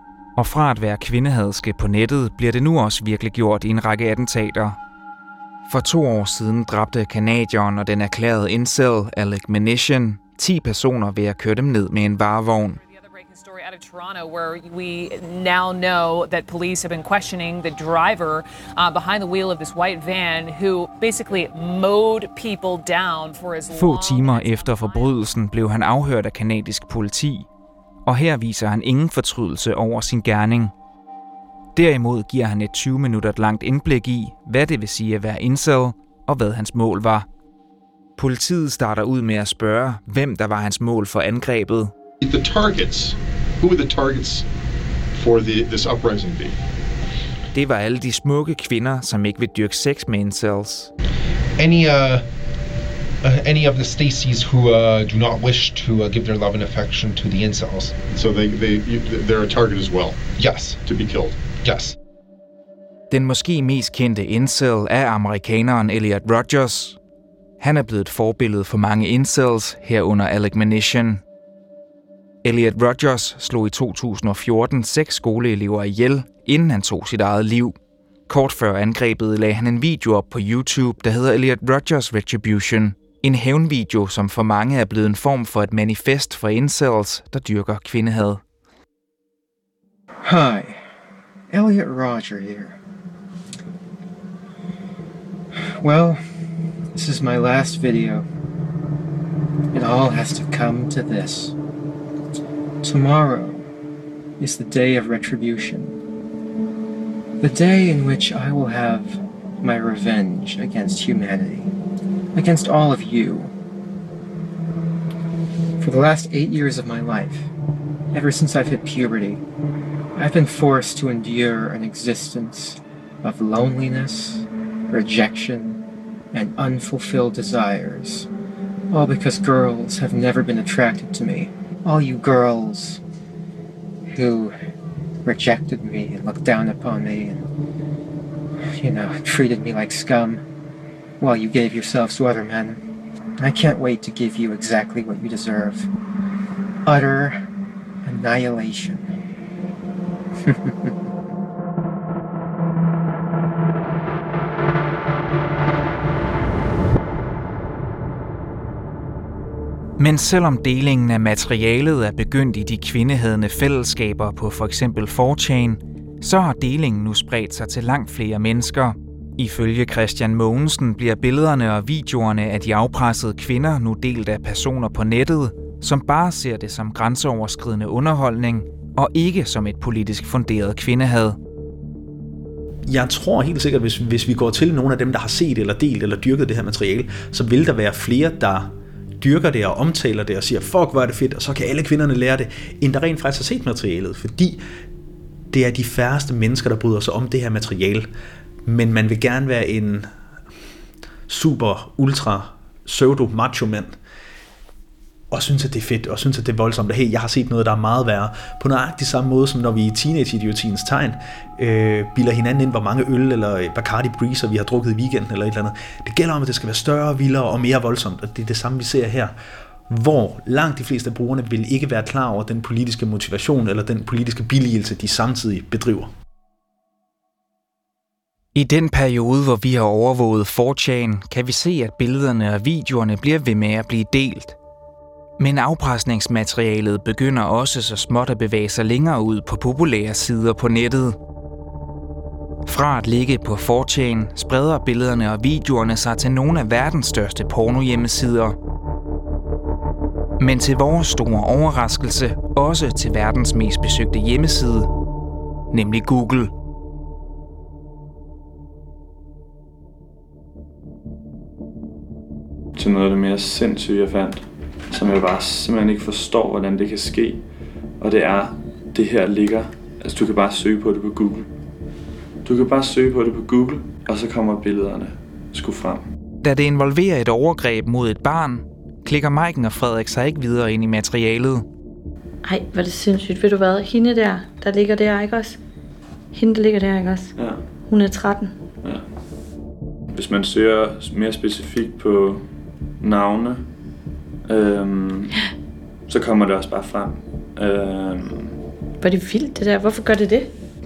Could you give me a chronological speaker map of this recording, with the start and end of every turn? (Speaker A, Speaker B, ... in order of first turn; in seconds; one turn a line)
Speaker A: 0.4-4.8
Speaker A: 5.7-12.8
Speaker B: 12.8-25.1
Speaker A: 23.7-27.5
Speaker A: 28.1-30.7
Speaker A: 31.8-37.3
Speaker A: 38.2-41.9
Speaker C: 42.2-44.5
Speaker C: 45.2-46.6
Speaker A: 47.5-50.9
Speaker C: 51.6-52.2
Speaker C: 53.2-61.9
Speaker A: 63.1-67.0
Speaker A: 67.6-71.2
Speaker A: 72.4-77.8
Speaker A: 78.3-88.4
Speaker D: 90.2-90.8
Speaker D: 91.5-92.8
Speaker D: 95.8-96.2
Speaker D: 96.9-98.2
Speaker D: 99.7-101.5
Speaker D: 102.8-103.7
Speaker D: 104.4-106.0
Speaker D: 107.4-111.7
Speaker D: 112.3-113.5
Speaker D: 115.8-117.5
Speaker D: 118.1-119.4
Speaker D: 120.2-125.8
Speaker D: 126.3-128.3
Speaker D: 128.9-133.0
Speaker D: 134.1-134.5
Speaker D: 135.2-137.4
Speaker D: 138.8-140.4
Speaker D: 141.2-142.8
Speaker D: 143.4-145.9
Speaker D: 146.8-147.4
Speaker D: 148.0-149.1
Speaker D: 150.5-150.9
Speaker A: 160.0-181.4
Speaker E: 182.9-194.6
Speaker E: 195.5-198.1
Speaker E: 198.7-200.1
Speaker E: 201.3-204.0
Speaker E: 205.3-219.3
Speaker E: 219.9-226.1
Speaker A: 228.6-234.6
Speaker A: 235.4-241.2
Speaker A: 242.7-248.6
Speaker A: 250.4-254.9
Speaker A: 255.7-256.5
Speaker F: 262.8-267.4
Speaker F: 268.0-271.5
Speaker F: 272.4-276.1
Speaker A: 276.4-281.6
Speaker G: 282.4-285.6
Speaker G: 286.3-287.3
Speaker F: 287.4-287.6
Speaker G: 287.9-288.5
Speaker F: 290.1-292.5
Speaker F: 293.0-293.7
Speaker F: 294.5-295.4
Speaker F: 296.1-298.6
Speaker G: 299.0-300.5